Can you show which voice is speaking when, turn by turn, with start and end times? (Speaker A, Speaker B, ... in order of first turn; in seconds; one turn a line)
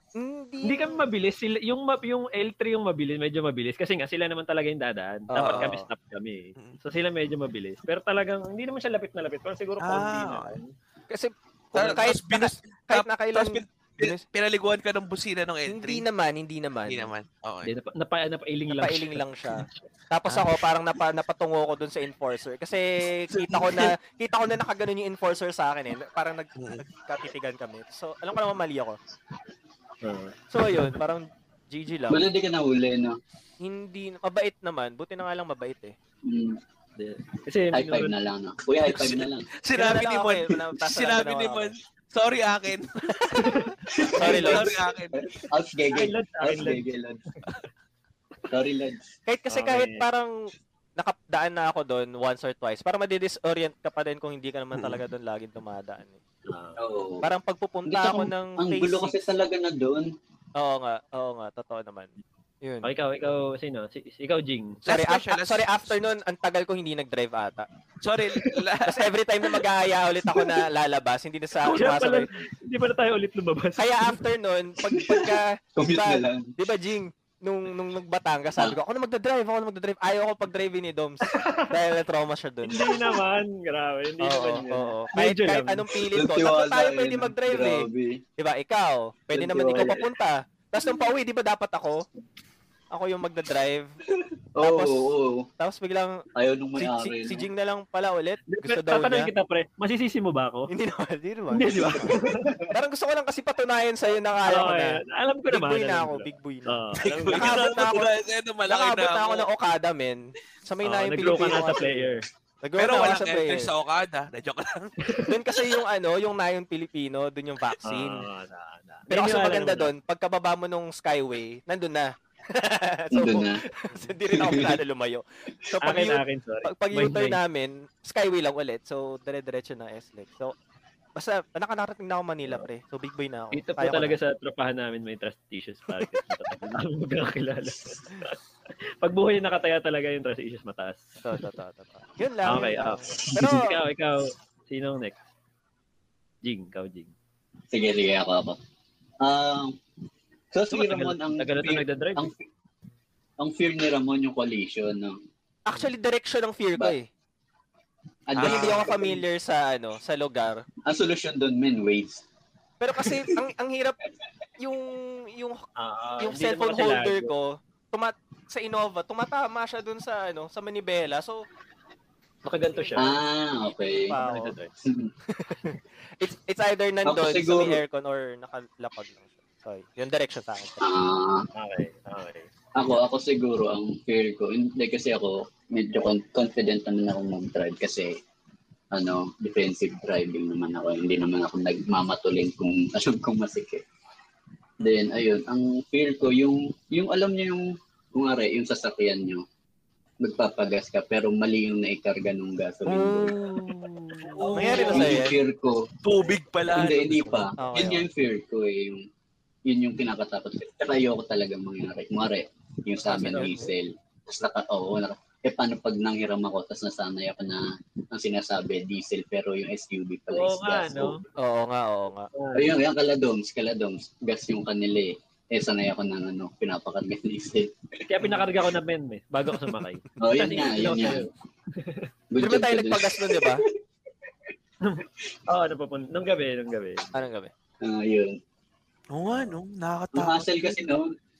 Speaker A: 0.2-1.0
Speaker B: 0.6-10.7
Speaker A: 5.3-5.9
Speaker C: 5.4-5.7
Speaker C: 9.8-10.6
Speaker A: 11.1-14.2
Speaker C: 11.7-16.0
Speaker A: 15.7-17.1
Speaker C: 16.9-17.7
Speaker B: 17.6-19.7
Speaker A: 18.7-29.0
Speaker C: 20.3-20.6
Speaker C: 23.3-23.9
Speaker C: 26.6-26.8
Speaker B: 30.0-30.3
Speaker A: 30.5-32.2
Speaker D: 32.1-33.2
Speaker A: 33.6-35.9
Speaker D: 36.2-36.6
Speaker B: 37.0-38.1
Speaker D: 37.7-39.5
Speaker C: 38.9-43.6
Speaker A: 39.7-41.7
Speaker A: 43.1-43.5
Speaker B: 43.4-43.7
Speaker D: 43.9-47.2
Speaker A: 44.2-44.7
Speaker C: 44.2-45.3
Speaker B: 45.9-47.5
Speaker D: 48.5-49.0
Speaker A: 49.3-50.3
Speaker B: 49.5-50.0
Speaker A: 51.0-56.2
Speaker C: 54.7-55.0
Speaker B: 56.5-56.8
Speaker D: 56.8-57.3
Speaker A: 57.2-59.1
Speaker D: 57.9-60.1
Speaker A: 60.5-62.1
Speaker A: 62.6-62.9
Speaker B: 62.8-64.8
Speaker C: 64.8-66.0
Speaker A: 64.9-67.7
Speaker C: 68.0-69.1
Speaker A: 68.8-72.3
Speaker B: 71.6-74.2
Speaker A: 73.8-83.1
Speaker D: 74.9-76.5
Speaker B: 81.2-81.7
Speaker B: 82.6-85.8
Speaker A: 84.2-92.0
Speaker D: 86.1-88.2
Speaker D: 89.3-90.1
Speaker A: 92.9-93.9
Speaker D: 94.2-95.5
Speaker A: 94.6-96.2
Speaker D: 96.3-97.5
Speaker A: 96.8-99.3
Speaker B: 98.5-100.7
Speaker A: 100.7-105.0
Speaker B: 101.5-102.5
Speaker D: 101.8-102.7
Speaker B: 104.4-107.6
Speaker A: 105.5-108.1
Speaker C: 107.0-109.5
Speaker A: 108.7-113.7
Speaker B: 110.8-112.2
Speaker C: 112.8-114.9
Speaker A: 115.3-118.2
Speaker B: 117.8-119.9
Speaker A: 119.1-130.5
Speaker D: 123.1-123.6
Speaker D: 124.3-124.7
Speaker B: 125.8-127.4
Speaker A: 131.2-134.2
Speaker B: 133.5-138.4
Speaker B: 139.0-141.1
Speaker A: 141.2-143.7
Speaker B: 142.4-145.2
Speaker B: 146.4-147.1
Speaker D: 147.7-148.6
Speaker D: 149.2-149.8
Speaker D: 150.5-152.4
Speaker B: 150.7-152.3
Speaker D: 153.4-155.2
Speaker A: 155.7-157.1
Speaker D: 158.3-159.2
Speaker C: 158.3-158.9
Speaker A: 158.4-160.6
Speaker D: 160.8-162.2
Speaker A: 162.8-164.0
Speaker D: 162.9-163.3
Speaker A: 164.6-165.6
Speaker B: 165.8-167.3
Speaker A: 166.2-171.4
Speaker B: 172.4-173.2
Speaker A: 172.7-173.2
Speaker D: 172.9-174.1
Speaker A: 173.9-174.6
Speaker B: 174.1-174.7
Speaker D: 174.9-175.1
Speaker A: 175.3-180.8
Speaker D: 177.0-177.8
Speaker D: 180.8-181.4
Speaker B: 181.6-182.5
Speaker D: 182.8-188.2
Speaker D: 188.9-193.8
Speaker D: 194.8-199.4
Speaker D: 200.2-203.4
Speaker A: 202.8-205.3
Speaker C: 204.2-205.3
Speaker D: 204.4-205.8
Speaker B: 204.4-205.1
Speaker C: 206.0-207.5
Speaker D: 206.7-209.0
Speaker A: 207.6-208.1
Speaker D: 209.7-221.1
Speaker A: 213.0-213.7
Speaker B: 220.3-221.2
Speaker A: 221.4-222.3
Speaker B: 222.3-222.7
Speaker D: 222.5-227.7
Speaker B: 228.1-232.1
Speaker A: 229.5-229.8
Speaker D: 230.2-231.2
Speaker D: 232.3-233.6
Speaker A: 232.4-233.6
Speaker B: 234.8-237.2
Speaker A: 237.1-237.5
Speaker D: 237.8-238.4
Speaker C: 239.1-240.9
Speaker D: 240.1-241.1